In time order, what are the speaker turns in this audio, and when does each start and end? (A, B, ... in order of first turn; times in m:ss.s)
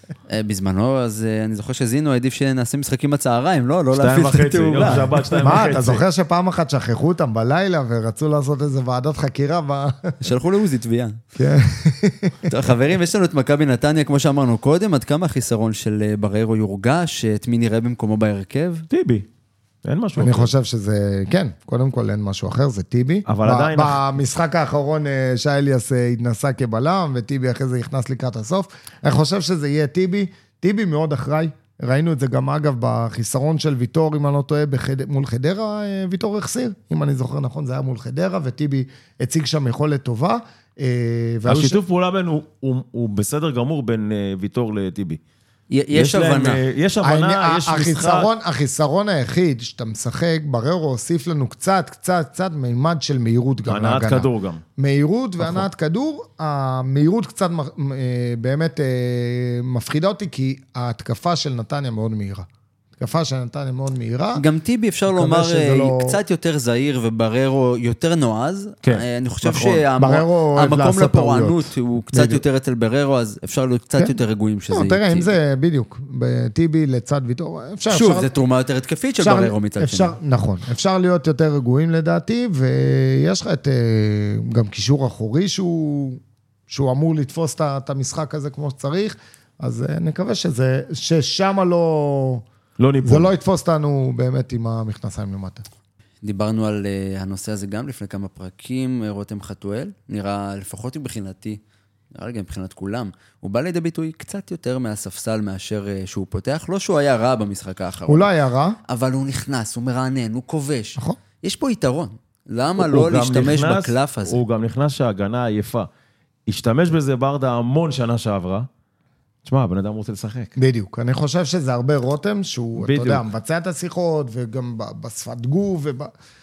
0:00.3-0:05.5 A
0:03.9-0:06.0 B
0:05.4-0:10.1 C
0:10.2-0:11.2 A
0:11.3-0:12.4 C
0:12.5-0:18.8 A
0:18.9-0:19.2 B
0:19.8-0:20.5 B
0:20.2-0:41.8 C
0:23.2-0:24.0 B
0:41.4-0:45.2 B
0:45.7-0:46.6 A
0:45.9-0:48.3 B
0:47.0-1:04.4 C
0:53.7-0:54.6 B
1:04.3-1:15.4 A
1:05.1-1:06.2 C
1:08.8-1:09.8 B
1:09.9-1:12.4 C
1:14.7-1:18.3 C
1:17.9-1:20.2 A
1:19.2-1:32.4 C
1:32.8-1:33.3 B
1:33.0-1:35.6 C
1:36.2-1:41.6 A
1:42.1-1:48.3 A
1:48.1-1:48.8 C
1:48.9-1:54.4 A
1:52.8-1:55.9 B
1:56.5-1:58.7 B
1:59.4-2:00.5 B
2:00.6-2:06.1 C
2:02.8-2:03.2 B